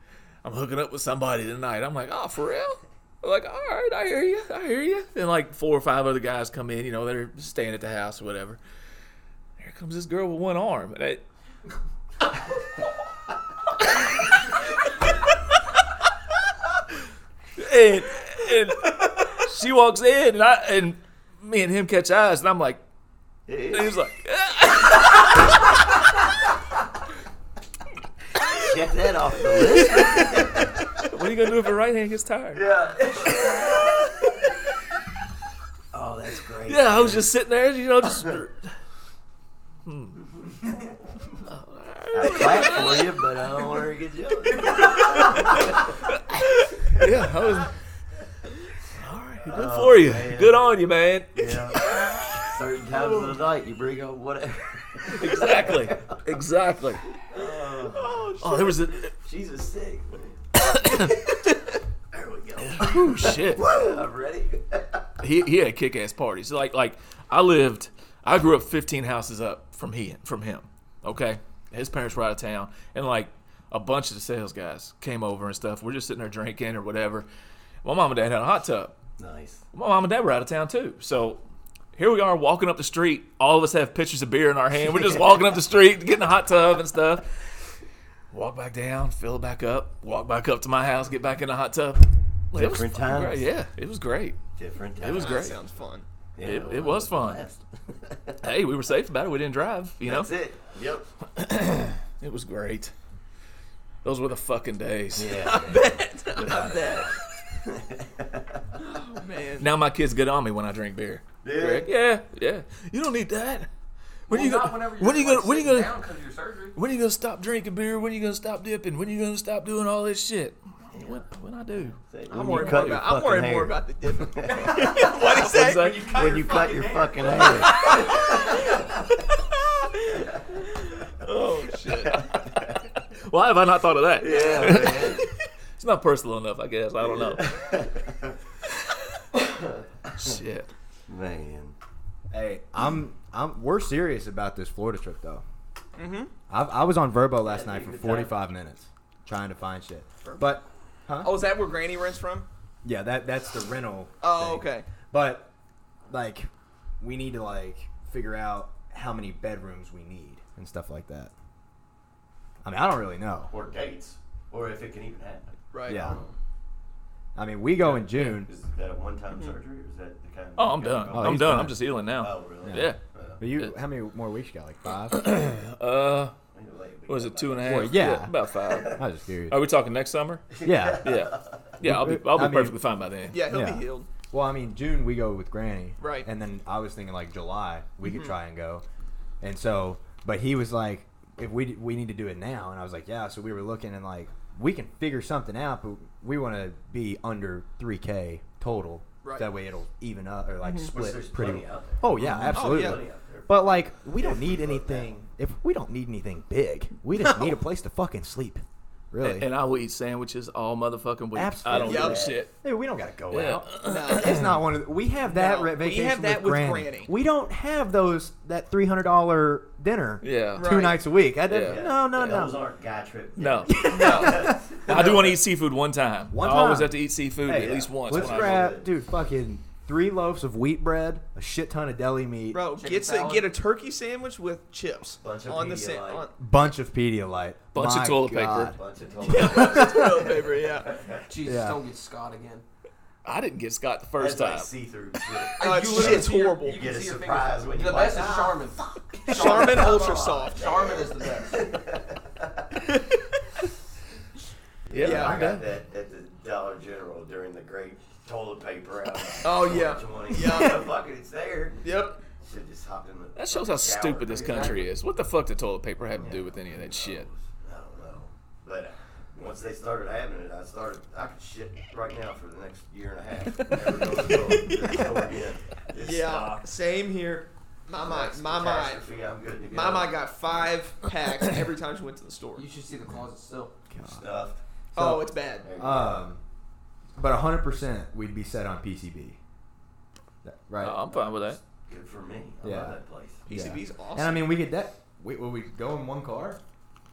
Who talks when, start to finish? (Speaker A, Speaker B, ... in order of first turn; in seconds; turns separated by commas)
Speaker A: 0.4-8.6, Speaker A: 9.6-11.2, Speaker A: 17.6-22.8, Speaker B: 23.5-23.9, Speaker A: 23.7-25.7, Speaker B: 28.5-30.7, Speaker A: 31.0-32.6, Speaker B: 32.5-34.0, Speaker B: 35.9-37.3, Speaker A: 36.6-38.7, Speaker A: 39.9-40.2, Speaker A: 41.4-43.7, Speaker B: 42.1-46.0, Speaker A: 44.5-47.7, Speaker B: 46.8-47.3, Speaker A: 48.9-52.5, Speaker B: 49.4-50.6, Speaker B: 51.3-56.2, Speaker A: 55.0-57.1, Speaker B: 57.2-60.4, Speaker C: 57.8-58.7, Speaker A: 58.4-59.1, Speaker A: 60.8-61.3, Speaker B: 62.1-65.0, Speaker A: 62.6-63.7, Speaker A: 65.2-77.3, Speaker A: 77.8-78.9, Speaker B: 79.2-79.6, Speaker A: 79.7-81.4, Speaker A: 82.0-87.2, Speaker A: 88.3-94.4, Speaker B: 92.5-93.5, Speaker B: 94.6-95.5, Speaker A: 95.0-95.5, Speaker C: 95.1-96.0, Speaker B: 96.3-98.4, Speaker A: 96.4-97.4, Speaker A: 98.4-100.3, Speaker B: 100.0-101.1, Speaker A: 101.3-102.9, Speaker A: 104.0-105.7, Speaker B: 105.1-108.6, Speaker C: 105.4-107.1, Speaker C: 108.8-109.7, Speaker A: 109.6-113.7, Speaker B: 111.4-111.9, Speaker A: 114.3-116.0, Speaker D: 114.3-116.8, Speaker A: 116.7-123.0, Speaker B: 122.1-125.2, Speaker C: 122.3-128.7, Speaker A: 124.8-126.2, Speaker B: 126.0-128.8, Speaker C: 129.9-130.2, Speaker B: 130.1-130.5, Speaker C: 131.0-132.2, Speaker B: 132.1-132.8, Speaker A: 133.3-137.6, Speaker B: 134.2-135.3, Speaker B: 137.0-138.4, Speaker B: 139.3-140.4, Speaker A: 140.1-140.7, Speaker B: 141.1-141.8, Speaker E: 142.3-145.4, Speaker C: 146.0-146.3, Speaker E: 146.5-151.4, Speaker B: 147.4-148.3, Speaker C: 151.2-152.5, Speaker E: 152.8-155.5, Speaker C: 154.2-154.9, Speaker E: 156.1-156.5, Speaker E: 157.0-161.3, Speaker E: 162.6-163.5, Speaker B: 163.5-166.3, Speaker C: 165.7-166.1, Speaker E: 165.9-166.2, Speaker E: 167.3-168.5, Speaker B: 167.8-173.4, Speaker A: 170.6-173.0, Speaker E: 171.1-171.8, Speaker E: 172.6-175.4, Speaker A: 175.1-176.3, Speaker B: 176.5-178.1, Speaker A: 177.1-183.4, Speaker E: 177.6-179.6, Speaker B: 178.6-179.0, Speaker B: 180.5-181.7, Speaker E: 180.6-181.1, Speaker E: 181.8-182.8, Speaker C: 183.3-184.1, Speaker E: 183.4-188.8, Speaker C: 186.0-186.3, Speaker C: 188.0-188.3, Speaker E: 189.4-209.5, Speaker C: 199.2-199.5, Speaker C: 200.6-200.9, Speaker B: 200.8-202.0, Speaker A: 202.1-202.6, Speaker C: 202.5-203.0, Speaker B: 202.5-205.1, Speaker C: 207.2-207.5, Speaker A: 209.2-212.5, Speaker E: 211.3-222.6, Speaker B: 211.7-212.4, Speaker C: 211.8-212.2, Speaker A: 213.3-214.6, Speaker C: 213.8-214.4, Speaker C: 215.3-217.1, Speaker A: 220.2-220.8, Speaker C: 220.6-221.0, Speaker A: 221.4-222.0, Speaker B: 221.6-225.3, Speaker A: 223.4-228.8, Speaker E: 223.7-225.1, Speaker C: 223.8-224.6, Speaker E: 226.3-232.6, Speaker B: 227.5-228.9, Speaker C: 232.5-236.3, Speaker D: 232.7-233.5, Speaker B: 235.2-236.3, Speaker E: 236.4-238.8, Speaker A: 237.7-238.8, Speaker B: 238.7-241.2, Speaker C: 239.2-240.9, Speaker E: 239.3-240.2, Speaker D: 241.2-242.6, Speaker E: 241.4-241.8, Speaker A: 243.2-244.7, Speaker B: 244.2-248.6, Speaker C: 245.6-246.9, Speaker D: 245.6-251.6, Speaker C: 248.1-248.5, Speaker C: 249.3-250.7, Speaker B: 249.3-252.7, Speaker C: 252.9-253.2, Speaker B: 254.9-264.9, Speaker A: 254.9-255.6, Speaker C: 255.0-255.5, Speaker C: 259.4-260.9, Speaker C: 261.8-262.2, Speaker A: 263.4-267.3, Speaker B: 266.1-276.6, Speaker C: 274.5-275.2, Speaker C: 275.9-279.0, Speaker B: 278.0-280.1, Speaker C: 279.7-282.7, Speaker D: 282.5-283.8, Speaker E: 283.9-284.2, Speaker B: 284.1-284.6, Speaker C: 284.9-285.6, Speaker E: 284.9-286.4, Speaker B: 285.6-286.2, Speaker E: 287.2-289.4, Speaker E: 290.4-291.0, Speaker A: 290.8-291.6, Speaker B: 291.1-293.4, Speaker E: 292.6-296.6, Speaker C: 293.4-294.5